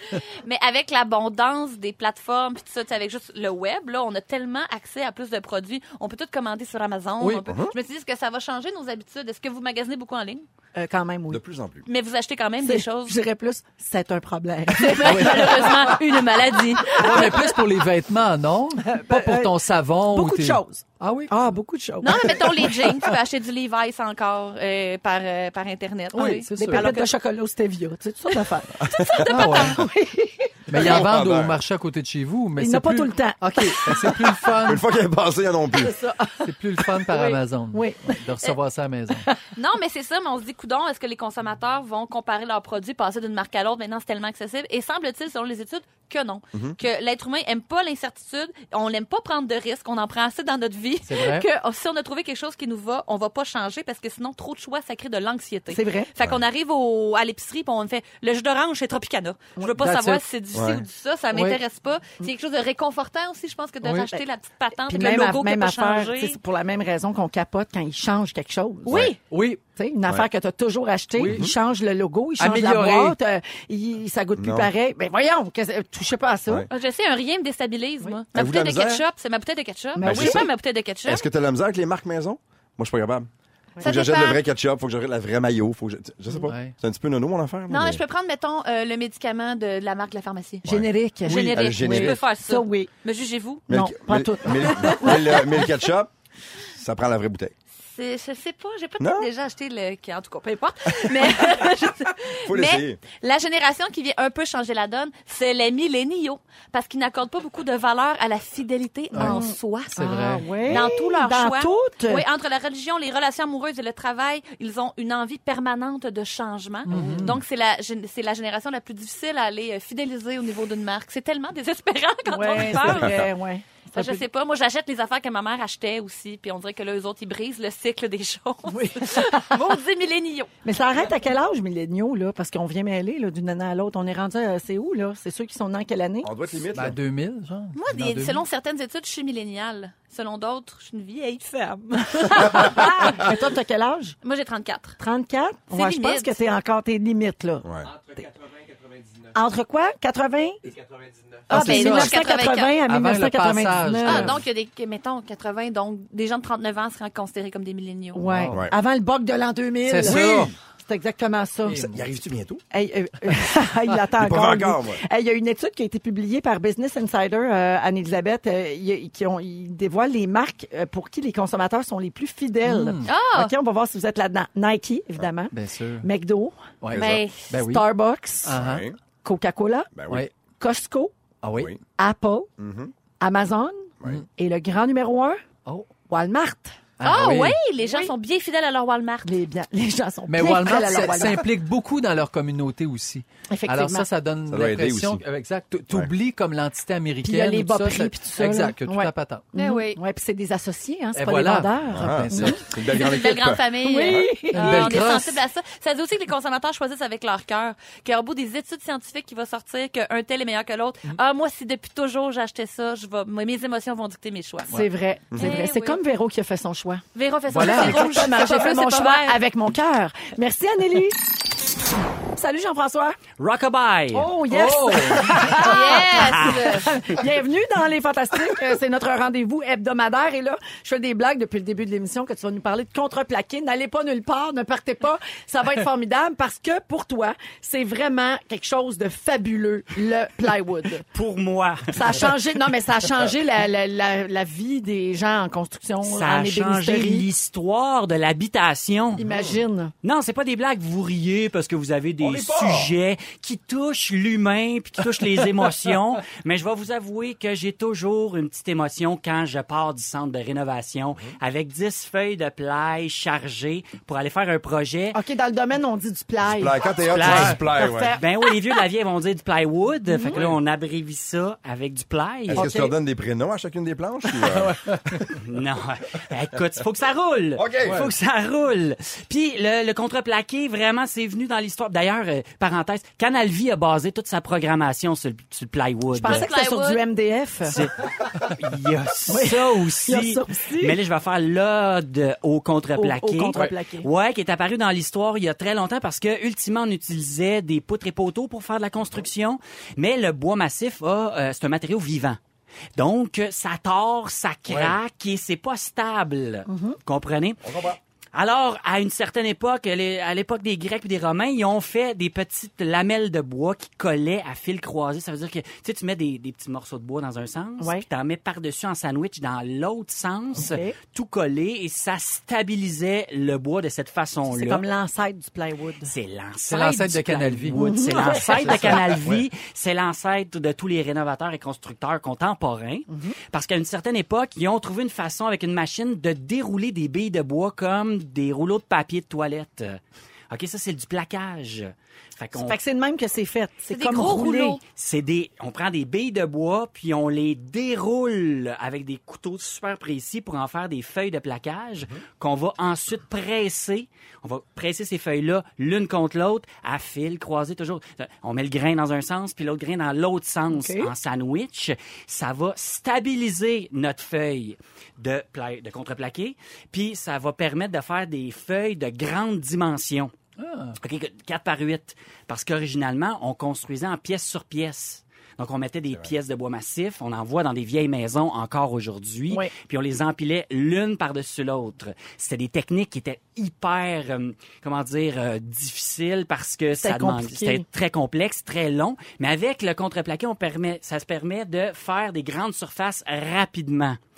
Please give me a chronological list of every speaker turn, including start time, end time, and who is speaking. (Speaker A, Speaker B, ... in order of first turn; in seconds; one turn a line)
Speaker A: 0.4-10.5
Speaker B: 7.2-7.5
Speaker C: 7.5-7.7
Speaker D: 10.8-11.4
Speaker C: 11.3-11.9
Speaker A: 11.9-13.2
Speaker D: 12.6-16.1
Speaker A: 14.8-17.4
Speaker B: 14.9-15.8
Speaker D: 16.9-17.5
Speaker B: 16.9-21.3
Speaker D: 18.9-22.8
Speaker A: 22.0-27.1
Speaker B: 26.1-27.0
Speaker D: 26.5-31.0
Speaker C: 28.8-29.3
Speaker A: 29.2-29.6
Speaker B: 29.3-29.8
Speaker B: 30.7-34.8
Speaker C: 30.7-31.6
Speaker D: 32.6-34.6
Speaker C: 34.6-36.0
Speaker D: 35.7-38.1
Speaker B: 36.4-39.2
Speaker A: 39.5-66.4
Speaker B: 51.0-51.5
Speaker D: 55.7-56.1
Speaker B: 59.8-60.2
Speaker C: 60.5-60.8
Speaker B: 61.3-61.6
Speaker B: 63.8-64.1
Speaker D: 64.9-69.1
Speaker C: 68.9-69.1
Speaker A: 68.9-69.2
Speaker B: 69.0-69.6
Speaker D: 69.8-76.7
Speaker B: 71.2-71.5
Speaker C: 71.2-71.5
Speaker B: 72.4-73.2
Speaker C: 74.4-74.7
Speaker A: 76.7-81.2
Speaker C: 78.3-79.0
Speaker D: 80.0-80.5
Speaker C: 80.0-80.5
Speaker C: 81.0-83.3
Speaker A: 83.8-84.4
Speaker C: 83.8-88.0
Speaker B: 86.5-86.7
Speaker A: 87.7-90.7
Speaker C: 90.6-92.2
Speaker D: 90.7-92.9
Speaker A: 91.2-93.6
Speaker D: 93.7-95.6
Speaker C: 93.7-96.1
Speaker A: 94.8-95.1
Speaker C: 96.7-97.5
Speaker A: 97.8-110.0
Speaker C: 99.0-99.3
Speaker C: 102.5-103.0
Speaker B: 109.1-109.4
Speaker D: 109.2-112.2
Speaker B: 110.0-110.8
Speaker A: 110.7-123.2
Speaker B: 116.9-117.4
Speaker D: 122.3-124.2
Speaker A: 123.9-130.5
Speaker D: 128.7-129.6
Speaker D: 130.6-136.3
Speaker C: 136.2-137.0
Speaker B: 136.7-138.4
Speaker A: 137.7-143.3
Speaker D: 142.3-144.2
Speaker A: 144.2-145.0
Speaker D: 145.0-147.7
Speaker A: 145.7-146.4
Speaker C: 147.6-147.9
Speaker D: 149.3-150.6
Speaker A: 151.5-152.8
Speaker D: 151.5-154.3
Speaker B: 151.5-152.3
Speaker B: 152.8-154.4
Speaker A: 154.0-158.2
Speaker D: 158.1-161.9
Speaker B: 158.2-158.6
Speaker B: 159.8-160.5
Speaker C: 160.1-160.5
Speaker B: 161.7-162.0
Speaker C: 161.8-162.6
Speaker D: 162.7-176.7
Speaker C: 164.2-165.0
Speaker B: 172.6-173.1
Speaker A: 173.0-173.5
Speaker B: 175.5-176.1
Speaker B: 176.8-177.9
Speaker C: 176.9-177.2
Speaker A: 176.9-177.5
Speaker D: 177.6-178.6
Speaker B: 178.4-178.9
Speaker C: 178.5-179.0
Speaker D: 179.2-179.9
Speaker C: 179.9-180.3
Speaker D: 180.6-181.1
Speaker B: 181.4-181.8
Speaker D: 181.9-182.5
Speaker C: 182.6-182.9
Speaker D: 183.2-185.4
Speaker B: 185.7-185.9
Speaker D: 186.1-186.8
Speaker B: 187.0-187.6
Speaker A: 187.0-189.3
Speaker D: 187.8-188.1
Speaker D: 189.2-191.5
Speaker B: 190.3-199.5
Speaker D: 193.5-194.1
Speaker C: 194.5-195.2
Speaker D: 197.2-202.6
Speaker A: 199.5-200.0
Speaker B: 201.1-202.7
Speaker C: 201.9-204.3
Speaker A: 202.9-214.8
Speaker D: 203.8-205.1
Speaker B: 204.5-205.4
Speaker D: 214.7-217.0
Speaker C: 215.3-215.6
Speaker A: 215.4-216.0
Speaker A: 217.1-219.4
Speaker B: 217.5-218.1
Speaker D: 217.6-221.2
Speaker D: 222.4-223.2
Speaker E: 223.4-224.3
Speaker D: 224.1-241.0
Speaker B: 224.5-225.6
Speaker A: 225.6-226.9
Speaker E: 226.2-226.7
Speaker E: 241.1-242.3
Speaker D: 241.9-247.2
Speaker E: 246.0-249.2
Speaker D: 249.2-249.9
Speaker C: 249.2-249.6
Speaker E: 250.0-265.2
Speaker C: 252.2-252.9
Speaker D: 265.1-268.5
Speaker C: 266.4-268.2
Speaker E: 267.1-267.6
Speaker E: 268.1-272.7
Speaker D: 270.1-270.4
Speaker C: 272.5-275.2
Speaker D: 272.5-272.9
Speaker B: 274.4-275.3
Speaker E: 275.4-286.5
Speaker C: 277.5-278.1
Speaker D: 286.1-287.8
Speaker A: 286.2-287.0
Speaker E: 287.6-302.4
Speaker D: 289.3-291.0
Speaker D: 293.0-294.1
Speaker E: 303.0-307.6
Speaker B: 304.7-304.9
Speaker D: 306.7-307.0
Speaker C: 307.6-308.0
Speaker E: 308.3-324.8
Speaker D: 317.8-318.0
Speaker D: 320.6-321.0
Speaker D: 324.5-326.1
Speaker E: 326.0-340.0
Speaker B: 326.7-329.3
Speaker D: 327.7-329.2
Speaker D: 333.1-333.4
Speaker E: 340.5-342.8
Speaker D: 342.5-344.8
Speaker A: 343.9-344.8
Speaker E: 344.9-370.3
Speaker D: 360.7-361.1
Speaker B: 370.6-371.0
Speaker E: 371.0-394.2
Speaker D: 387.0-387.8